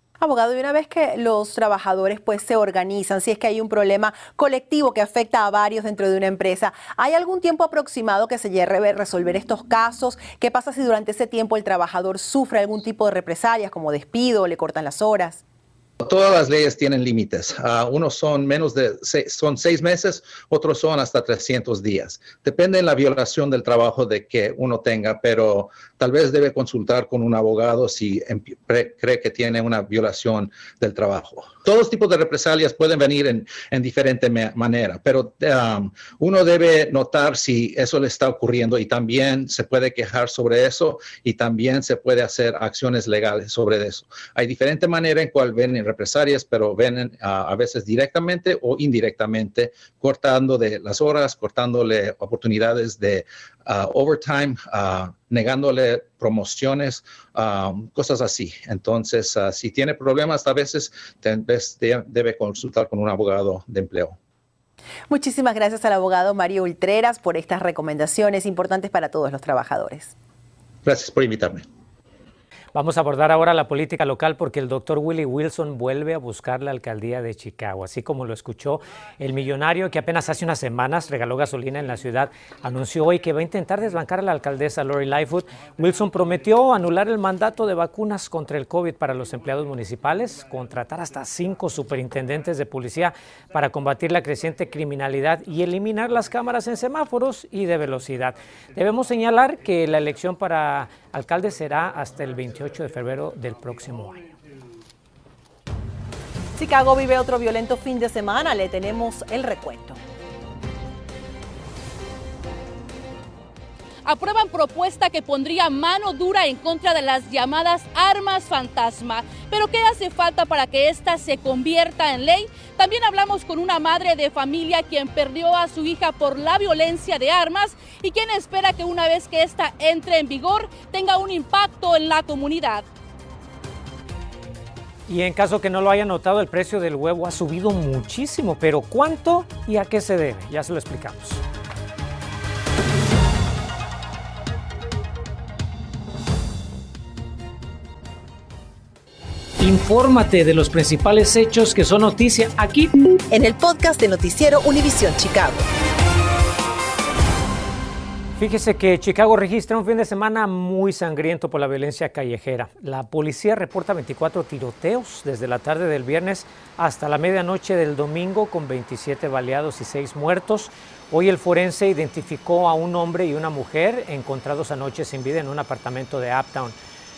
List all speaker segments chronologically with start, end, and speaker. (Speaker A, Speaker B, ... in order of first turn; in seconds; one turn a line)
Speaker A: 0.2-15.4
Speaker B: 16.0-64.2
Speaker A: 65.1-70.1
Speaker B: 70.8-71.6
Speaker C: 72.7-104.3
Speaker A: 106.6-110.0
Speaker D: 114.0-132.8
Speaker C: 135.1-141.4
Speaker C: 149.6-152.9
Speaker A: 153.3-155.7
Speaker C: 158.4-176.7